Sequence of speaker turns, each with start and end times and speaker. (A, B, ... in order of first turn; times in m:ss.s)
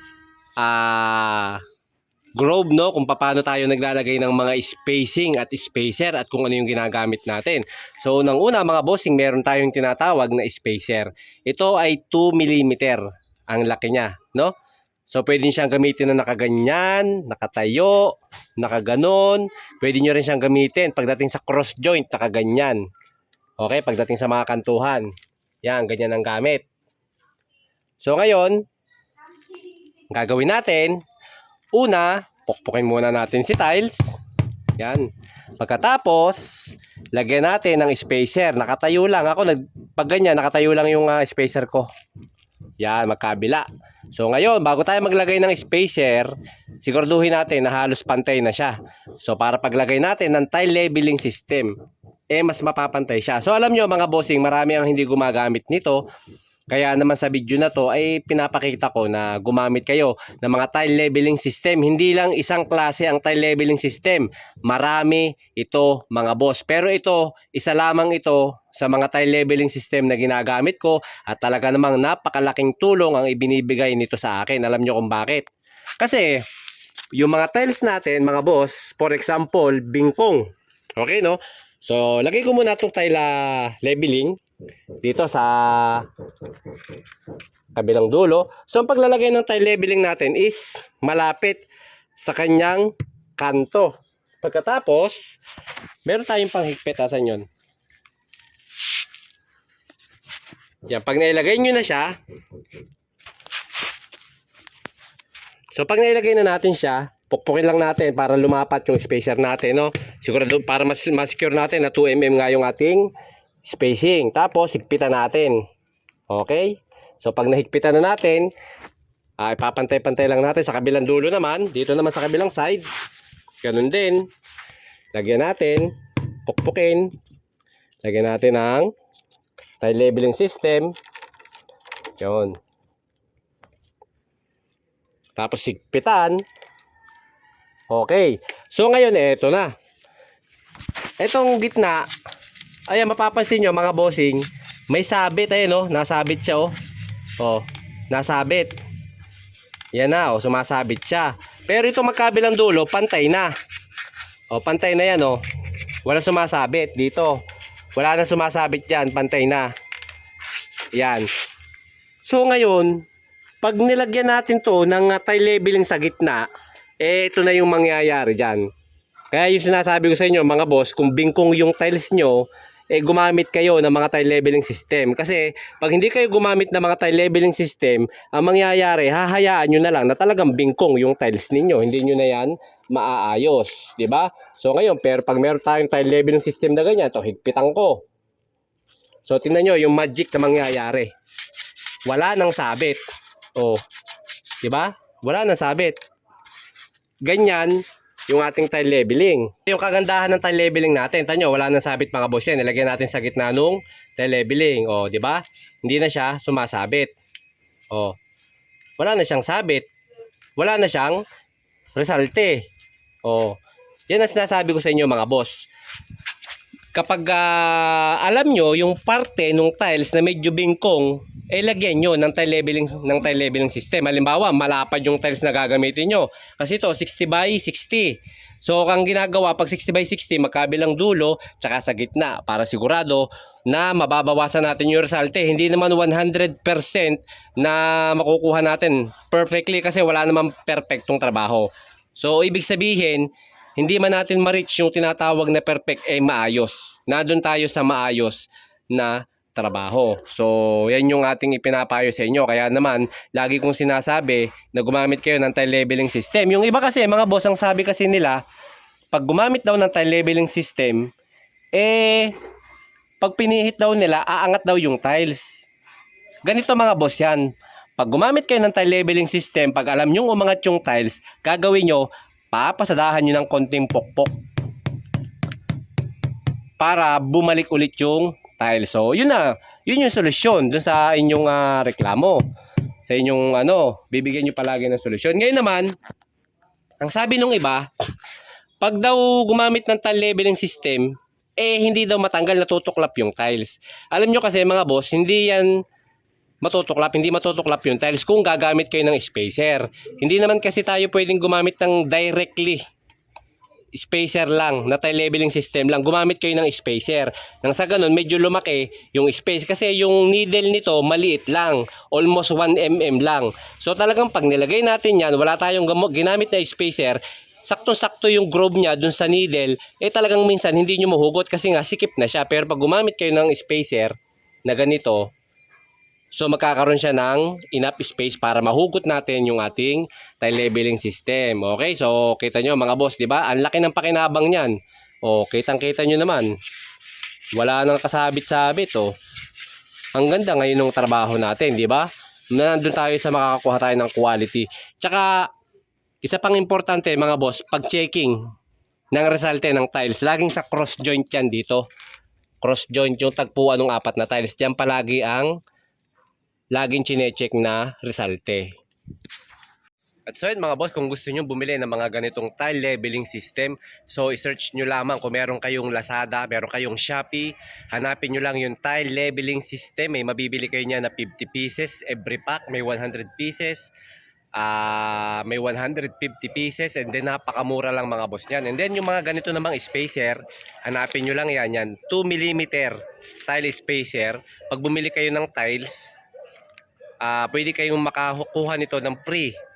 0:00.6-0:01.6 A
0:02.3-0:14.5 A
0:15.1-0:22.8 A
0:23.6-0:25.1 A
0:25.6-0:26.7 A
0:28.0-0:28.6 A
0:30.1-0:31.0 A
0:31.7-0:34.2 A
0:34.7-0:41.9 A
0:42.8-0:51.7 A
0:52.3-0:56.0 A
0:56.7-1:15.4 A
1:16.0-1:16.4 A
1:17.1-1:24.4 A
1:25.0-1:26.1 A
1:27.7-1:31.6 A
1:32.2-1:35.4 A
1:36.0-1:37.5 A
1:40.9-1:42.2 A
1:45.7-1:53.1 A
1:53.6-1:55.6 A
1:56.3-1:58.5 A
1:59.4-2:02.9 A
2:03.6-2:04.3 A
2:05.1-2:05.9 A
2:06.4-2:07.1 A
2:08.0-2:08.9 A
2:09.8-2:10.9 A
2:12.2-2:12.6 A
2:15.4-2:16.4 A
2:17.9-2:19.7 A
2:21.2-2:22.0 A
2:22.9-2:26.7 A
2:27.4-2:28.7 A
2:29.9-2:33.5 A
2:34.5-2:35.4 A
2:36.0-2:37.4 A
2:37.9-2:39.7 A
2:40.9-2:41.3 A
2:42.2-2:43.0 A
2:43.6-2:46.5 A
2:47.0-2:48.7 A
2:49.3-3:08.0 A
3:09.2-3:11.1 A
3:12.0-3:13.0 A
3:13.5-3:13.8 A
3:14.6-3:16.0 A
3:17.2-3:27.1 A
3:27.9-3:28.2 A
3:29.0-3:29.9 A
3:30.6-3:31.2 A
3:31.9-3:32.6 A
3:33.2-3:35.7 A
3:36.9-4:18.4 A
4:19.1-4:21.1 A
4:21.7-4:22.3 A
4:23.2-4:25.6 A
4:26.4-4:34.3 A
4:36.8-4:42.4 A
4:43.1-4:45.9 A
4:47.0-4:47.9 A
4:48.8-4:55.8 A
4:56.6-5:02.8 A
5:03.9-5:24.1 A
5:24.6-5:25.3 A
5:26.3-5:36.5 A
5:37.5-5:39.1 A
5:40.1-5:45.5 A
5:46.2-5:48.4 A
5:49.1-5:51.9 A
5:52.6-5:55.6 A
5:56.7-5:58.7 A
6:00.3-6:13.9 A
6:14.5-6:26.1 A
6:27.2-6:29.6 A